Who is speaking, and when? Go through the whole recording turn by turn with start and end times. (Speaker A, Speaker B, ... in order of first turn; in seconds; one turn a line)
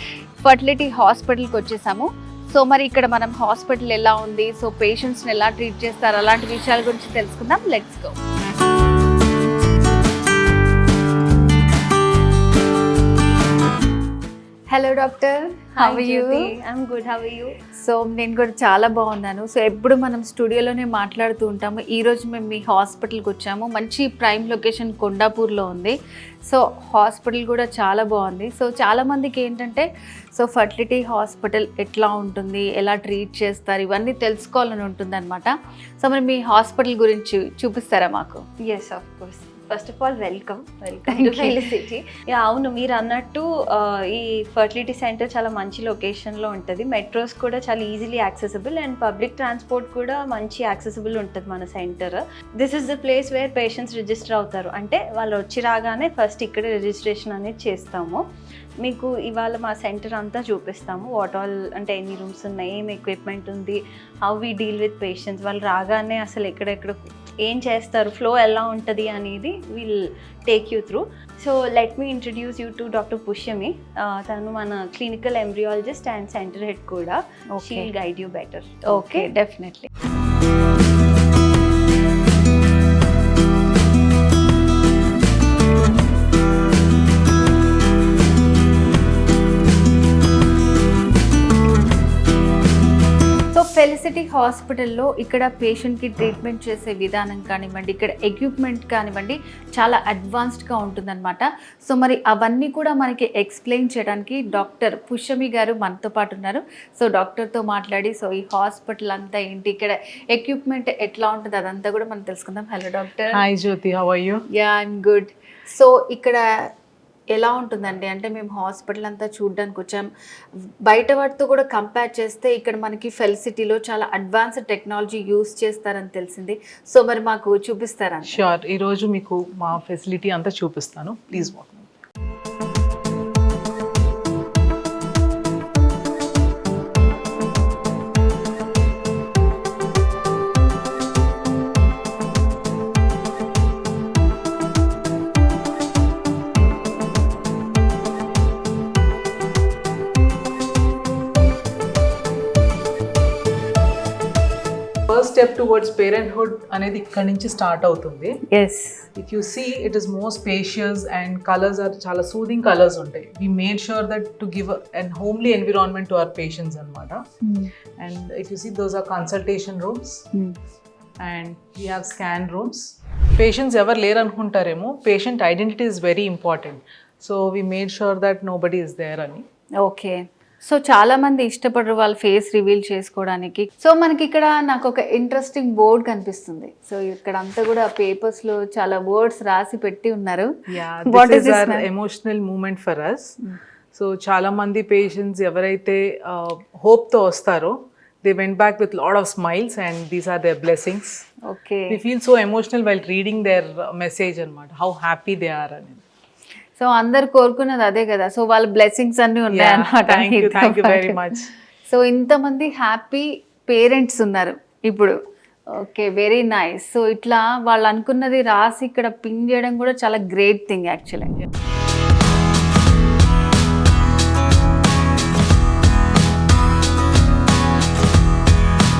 Speaker A: 0.4-8.2
Speaker A: 14.7-16.5
Speaker B: 15.8-17.5
Speaker A: 17.7-25.9
Speaker A: 26.5-38.4
Speaker B: 38.6-58.2
Speaker A: 41.0-41.6
Speaker B: 58.8-79.3
Speaker A: 77.5-77.9
Speaker A: 78.9-79.9
Speaker A: 93.5-113.4
Speaker C: 113.3-114.4
Speaker A: 114.5-116.4
Speaker A: 117.3-120.1
Speaker A: 120.8-128.4
Speaker C: 128.2-131.9
Speaker C: 155.1-158.4
Speaker B: 158.5-159.0
Speaker C: 159.2-167.2
Speaker A: 167.4-167.7
Speaker C: 168.0-170.2
Speaker C: 171.2-179.4
Speaker A: 179.8-190.5
Speaker C: 190.7-193.3
Speaker A: 191.1-191.8
Speaker C: 193.9-201.2
Speaker A: 201.5-202.0
Speaker C: 201.9-206.0
Speaker A: 206.8-211.2
Speaker C: 209.5-211.5
Speaker A: 211.9-215.2
Speaker A: 215.7-221.3